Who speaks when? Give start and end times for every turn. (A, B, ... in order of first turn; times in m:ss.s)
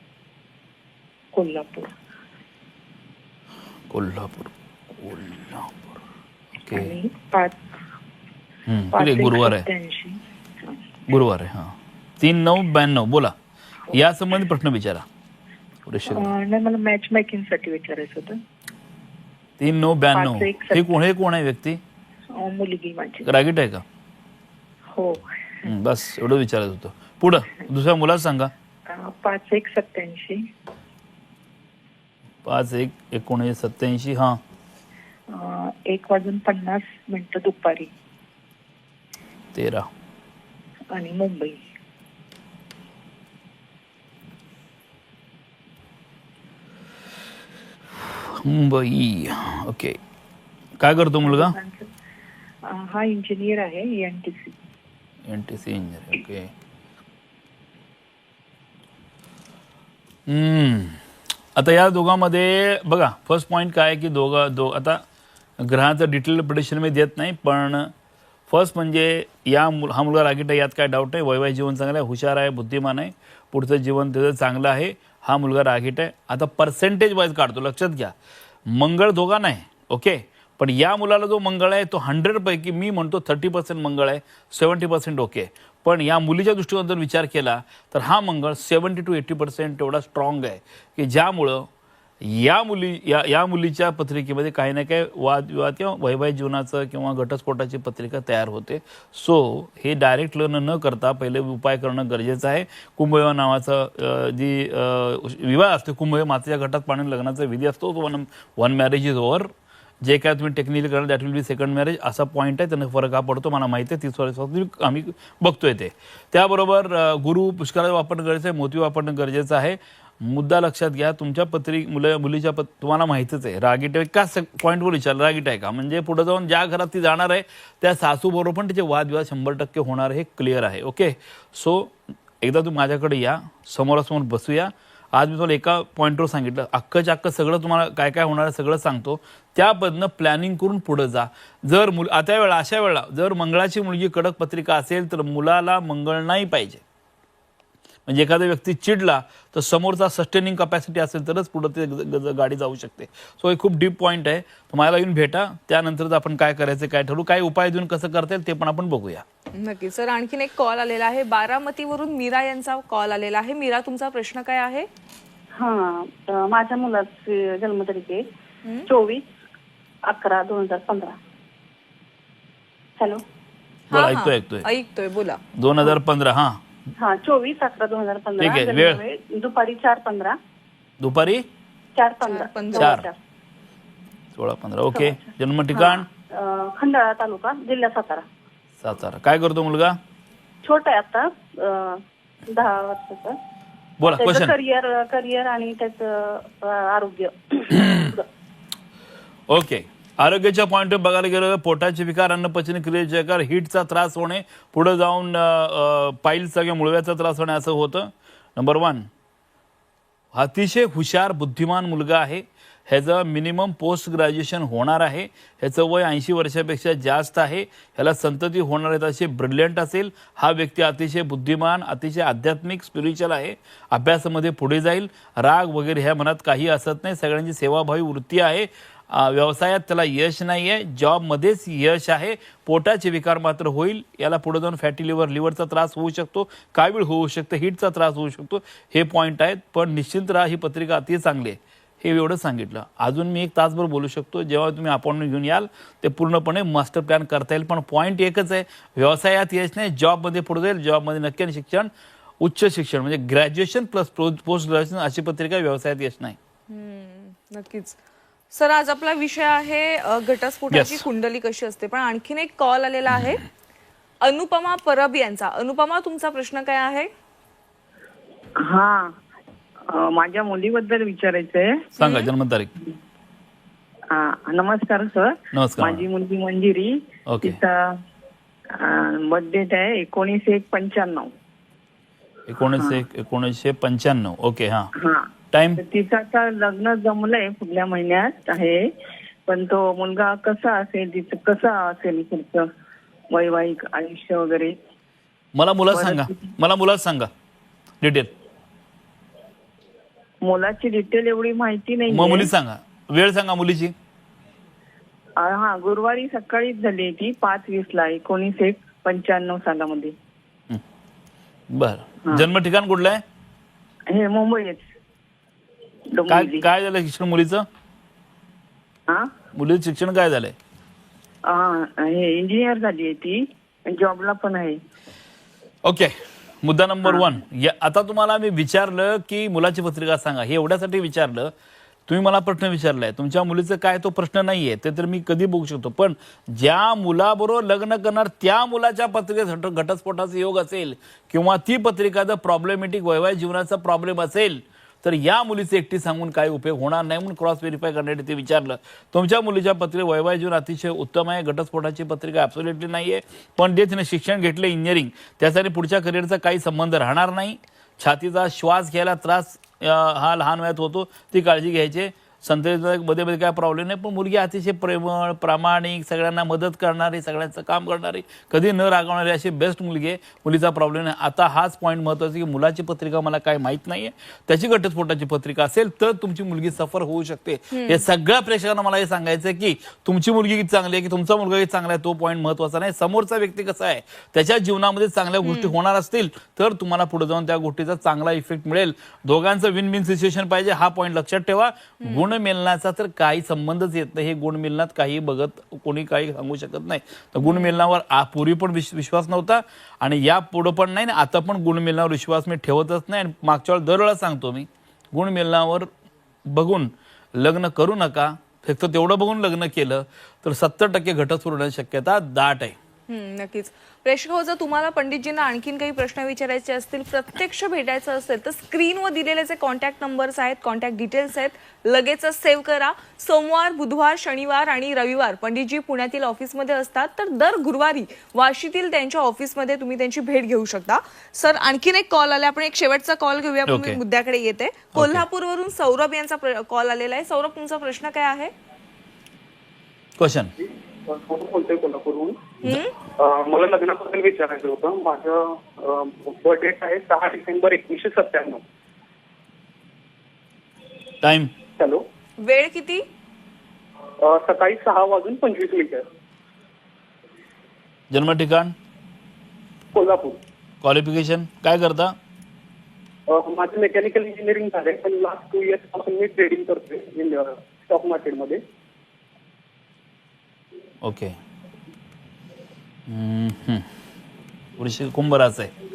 0:01.3-0:01.9 A
0:03.9-0:06.0 B
0:06.7-0:07.0 B
0:06.7-0:07.6 A
0:08.7-0:09.7 B
0:08.9-0:10.8 A
0:11.1-0:13.3 B
0:13.9-0:15.0 B
0:15.9-0:16.3 B
0:16.1-0:18.4 A
0:19.6-0:21.8 B
0:20.1-0:20.9 A
0:22.3-0:23.3 A
0:23.2-0:23.8 B
0:24.9-0:25.7 A
0:25.6-0:28.5 B
0:28.9-0:30.5 A
0:32.4-0:34.4 B
0:35.3-0:37.9 A
0:39.5-0:39.9 B
0:40.9-0:41.6 A
0:48.1-0:50.0 B
0:50.8-0:51.6 B
0:51.2-0:51.9 A
0:52.6-0:54.6 A
0:55.3-0:56.5 B
1:00.3-1:01.0 B
1:01.6-1:05.0 B
1:05.6-1:07.9 B
1:08.5-1:18.1 B
1:18.7-1:31.7 B
1:32.2-1:49.5 B
1:50.0-2:26.8 B
2:28.0-2:39.2 B
2:39.5-2:44.9 C
2:45.6-2:48.2 D
2:48.9-2:49.2 D
2:50.0-2:51.2 D
2:53.0-2:53.2 D
2:53.9-2:55.4 C
2:53.9-2:54.7 B
2:55.5-2:56.6 B
2:57.0-3:00.4 D
2:58.4-2:59.0 B
3:01.0-3:01.4 B
3:02.0-3:03.2 D
3:02.2-3:03.0 C
3:02.7-3:03.1 B
3:04.4-3:06.1 B
3:05.7-3:06.0 C
3:06.3-3:08.2 D
3:08.8-3:10.0 B
3:10.6-3:13.4 D
3:14.0-3:14.5 B
3:14.0-3:18.2 D
3:17.8-3:18.1 B
3:19.5-3:29.1 B
3:30.3-4:11.9 B
4:12.4-4:16.4 B
4:16.7-4:18.0 C
4:18.5-4:23.4 C
4:20.7-4:21.0 B
4:24.2-4:27.1 C
4:28.6-4:29.2 E
4:29.8-4:31.8 E
4:31.9-4:32.7 B
4:32.0-4:32.3 C
4:34.1-4:38.0 E
4:35.5-4:36.0 B
4:37.3-4:37.6 B
4:38.7-4:41.3 E
4:42.5-4:44.9 B
4:44.9-4:48.9 E
4:45.5-4:45.8 B
4:49.4-4:52.7 E
4:53.3-4:54.8 E
4:55.5-4:57.3 B
4:55.9-4:56.5 E
4:58.0-4:58.3 B
5:00.4-5:02.5 E
5:02.1-5:03.9 B
5:05.4-5:10.1 E
5:11.7-5:13.2 B
5:14.1-5:14.9 E
5:16.1-5:16.6 E
5:16.3-5:17.6 B
5:19.1-5:19.3 E
5:19.5-5:20.5 B
5:21.5-5:24.8 E
5:25.8-5:31.5 B
5:32.1-6:45.9 B
6:17.7-6:18.0 C
6:25.4-6:25.7 C
6:32.0-6:32.3 C
6:37.4-6:37.8 C
6:46.5-6:52.8 B
6:53.1-7:18.5 C
7:13.7-7:14.0 B
7:14.9-7:15.2 B
7:20.2-7:20.5 B
7:21.1-7:22.4 F
7:22.6-7:22.9 C
7:23.2-7:28.6 F
7:31.2-7:31.5 B
7:31.8-7:32.0 F
7:32.4-7:33.0 C
7:34.2-7:36.0 F
7:38.1-7:38.7 B
7:39.9-7:40.4 F
7:40.8-7:42.2 B
7:43.3-7:48.6 F
7:51.0-7:51.4 B
7:53.1-7:53.9 B
7:54.8-7:55.7 B